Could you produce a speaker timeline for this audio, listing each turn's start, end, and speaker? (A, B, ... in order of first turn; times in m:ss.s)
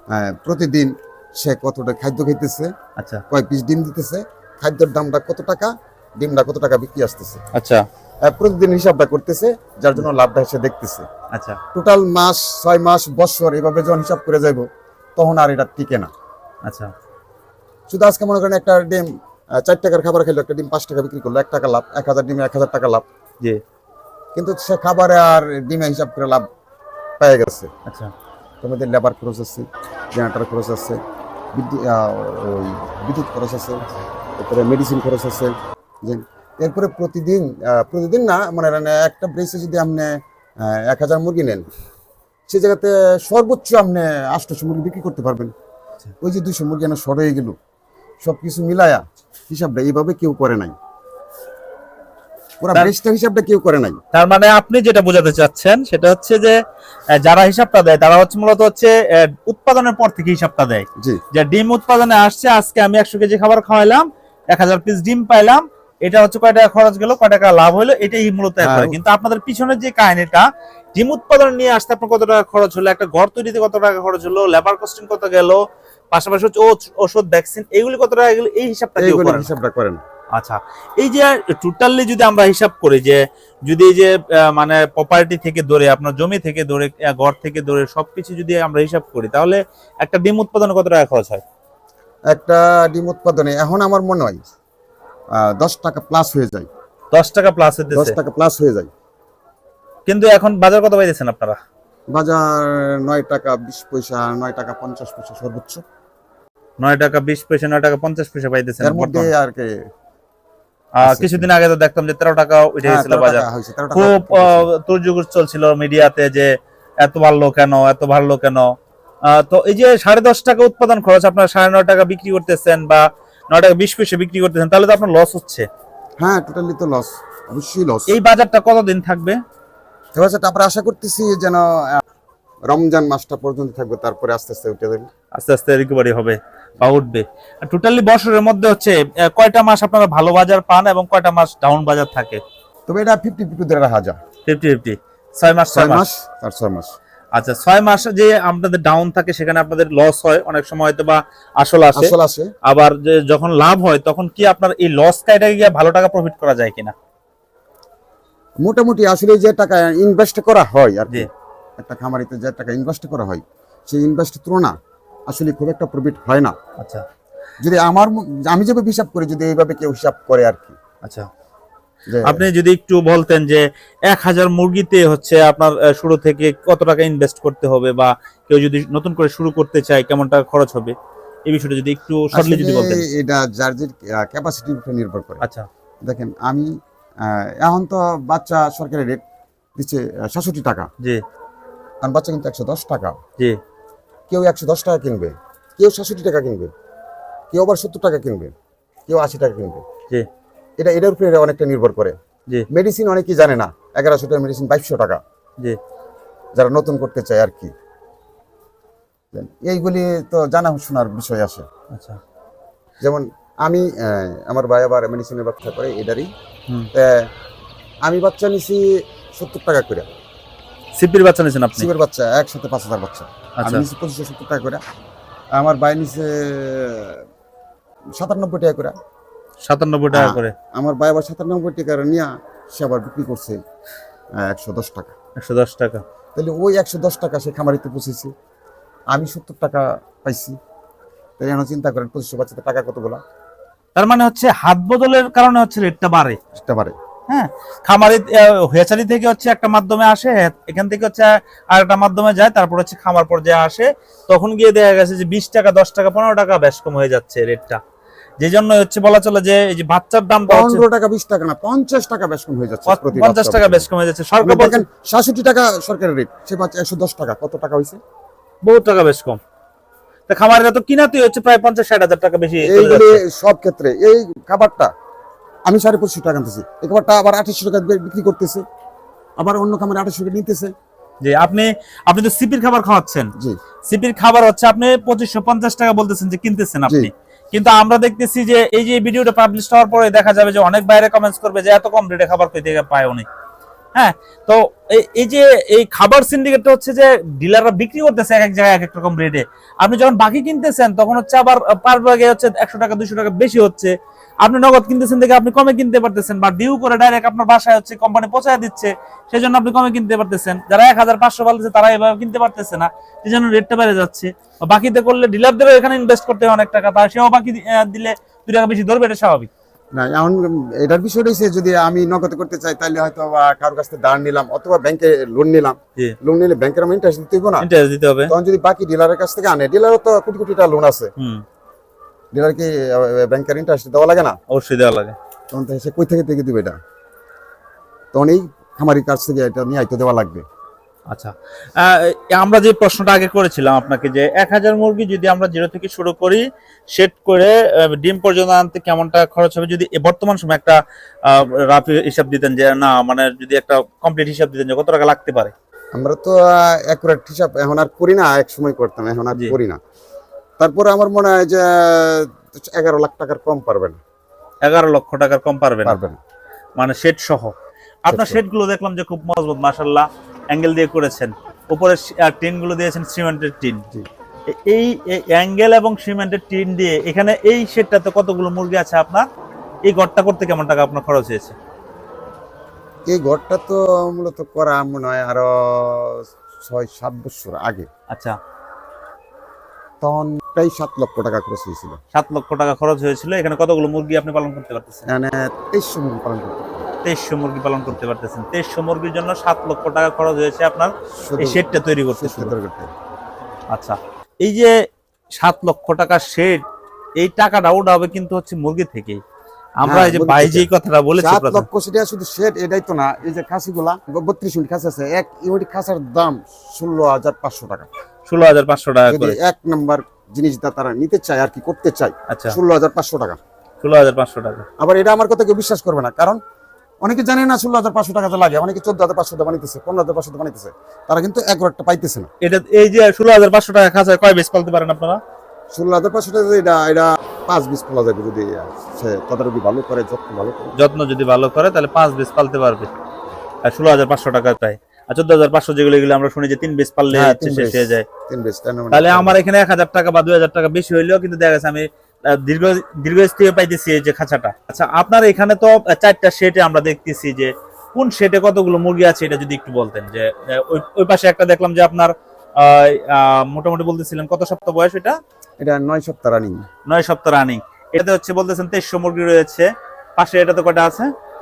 0:00.1-0:02.7 A
0:03.0-0:03.2 B
0:03.3-0:07.4 A
0:07.5-0:07.8 B
0:08.2-0:11.0 A
0:11.3-0:11.6 B
0:11.7-0:14.6 A
0:15.2-0:16.1 A
0:16.6-0:16.9 B
0:17.9-0:19.1 A
0:19.6-0:23.0 A
0:24.3-0:26.4 A
0:27.2-0:27.7 A
0:28.6-0:31.0 A
0:31.5-0:33.8 A
0:34.4-0:40.1 A
0:40.6-0:41.7 A
0:42.5-0:45.5 A
0:46.2-0:47.5 A
0:48.2-0:50.7 A
0:52.6-0:54.0 A
0:54.1-0:56.6 B
0:57.1-1:15.6 B
1:08.6-1:09.0 A
1:16.1-1:19.5 B
1:19.0-1:20.0 A
1:20.3-1:31.4 B
1:32.3-1:34.4 A
1:35.4-1:36.7 A
1:37.1-1:38.2 B
1:37.9-1:38.9 A
1:40.1-1:41.6 B
1:42.1-1:45.8 A
1:46.8-1:49.3 B
1:48.8-1:49.7 A
1:51.0-1:58.7 B
1:51.0-1:51.5 A
1:52.8-1:54.7 A
1:59.3-2:05.7 B
2:06.2-2:08.1 A
2:08.1-2:09.4 B
2:10.1-2:12.0 A
2:12.7-2:15.1 A
2:15.4-2:22.4 B
2:22.9-2:24.2 A
2:24.4-2:26.0 B
2:25.7-2:26.9 A
2:27.3-2:32.1 B
2:31.9-2:32.5 A
2:32.6-2:36.9 B
2:38.6-2:44.7 A
2:45.3-2:46.5 A
2:46.8-2:47.0 B
2:47.6-2:50.8 A
2:51.0-2:51.3 B
2:52.1-2:52.4 A
2:52.2-3:00.9 B
3:01.5-3:03.0 B
3:02.3-3:05.4 A
3:05.4-3:05.7 B
3:06.0-3:06.7 A
3:07.2-3:09.2 A
3:09.8-3:10.9 A
3:12.0-3:13.2 A
3:14.3-3:16.7 A
3:17.5-3:18.5 A
3:19.1-3:19.8 A
3:20.8-3:22.1 A
3:22.7-3:25.2 A
3:26.5-3:27.7 A
3:29.3-3:31.6 A
3:31.9-3:32.2 B
3:33.0-3:36.3 A
3:36.9-3:37.2 A
3:38.0-3:40.1 A
3:41.0-3:41.9 B
3:41.8-3:44.8 A
3:45.6-3:47.2 A
3:48.2-3:48.9 A
3:49.6-3:50.5 B
3:50.1-3:53.6 A
3:54.4-3:55.1 A
3:55.4-3:56.0 B
3:56.3-3:58.3 A
3:59.1-4:00.6 A
4:01.4-4:03.2 A
4:04.0-4:06.4 B
4:06.5-4:07.0 A
4:07.3-4:17.8 B
4:18.4-4:20.8 B
4:20.5-4:23.9 A
4:22.9-4:24.8 B
4:24.4-4:28.0 A
4:28.6-4:29.4 B
4:30.3-4:33.2 B
4:32.6-4:34.9 A
4:35.7-4:38.6 A
4:39.4-4:40.7 A
4:41.2-4:43.3 B
4:43.9-4:53.3 B
4:53.9-5:19.5 B
5:19.9-5:27.7 A
5:27.6-5:28.3 B
5:28.3-5:31.1 A
5:31.2-5:31.4 B
5:32.3-5:34.3 A
5:34.5-5:35.1 B
5:35.5-5:36.8 A
5:38.1-5:40.4 A
5:41.1-5:55.5 B
5:55.9-5:59.8 A
6:00.6-6:04.0 A
6:04.6-6:06.0 B
6:05.8-6:06.2 A
6:06.8-6:07.5 B
6:08.0-6:13.8 B
6:08.1-6:08.4 A
6:14.5-6:19.2 B
6:19.9-6:21.5 B
6:23.1-6:27.9 A
6:28.1-6:28.4 B
6:30.0-6:32.0 A
6:32.1-6:35.1 B
6:35.1-6:36.8 A
6:37.0-6:42.5 B
6:41.1-6:42.9 A
6:43.7-6:44.7 B
6:45.4-6:46.6 B
6:47.2-6:49.2 B
6:49.8-6:51.6 B
6:49.8-6:50.7 A
6:51.2-6:57.9 A
6:58.3-6:59.4 B
6:59.1-7:03.4 A
7:02.3-7:02.6 B
7:03.8-7:04.7 B
7:04.8-7:06.4 A
7:07.0-7:12.3 A
7:12.4-7:15.2 B
7:15.7-7:20.7 A
7:20.8-7:22.9 B
7:23.6-7:28.0 B
7:27.1-7:29.4 A
7:28.9-7:45.1 B
7:45.6-7:46.6 A
7:46.9-7:51.1 B